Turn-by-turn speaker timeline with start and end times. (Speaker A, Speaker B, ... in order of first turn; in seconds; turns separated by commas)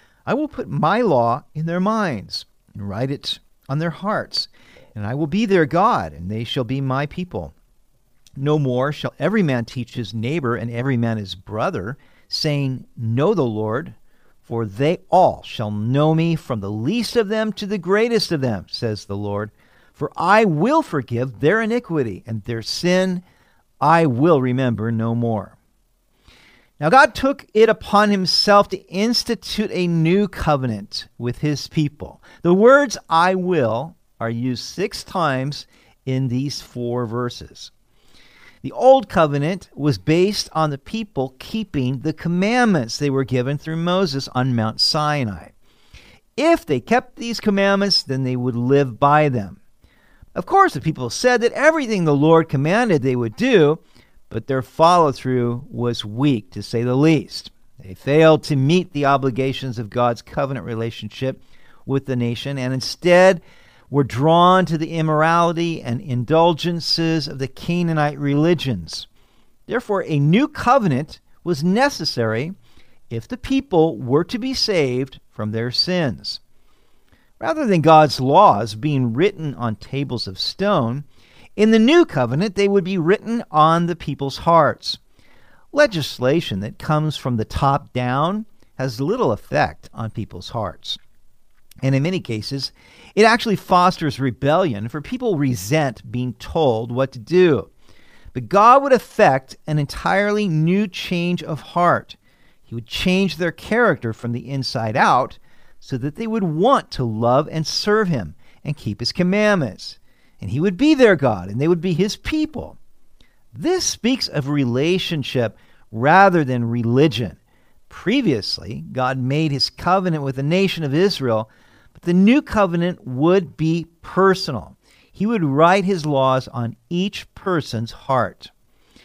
Speaker A: 0.3-7.5, Speaker A: 8.4-23.2, Speaker A: 23.8-25.6, Speaker A: 26.8-37.7, Speaker A: 38.6-45.5, Speaker A: 46.4-49.6, Speaker A: 50.4-69.1, Speaker A: 69.7-72.5, Speaker A: 73.1-76.4, Speaker A: 77.4-81.0, Speaker A: 81.6-85.0, Speaker A: 85.7-91.0, Speaker A: 91.8-97.7, Speaker A: 98.3-112.8, Speaker A: 113.5-117.4, Speaker A: 117.9-128.5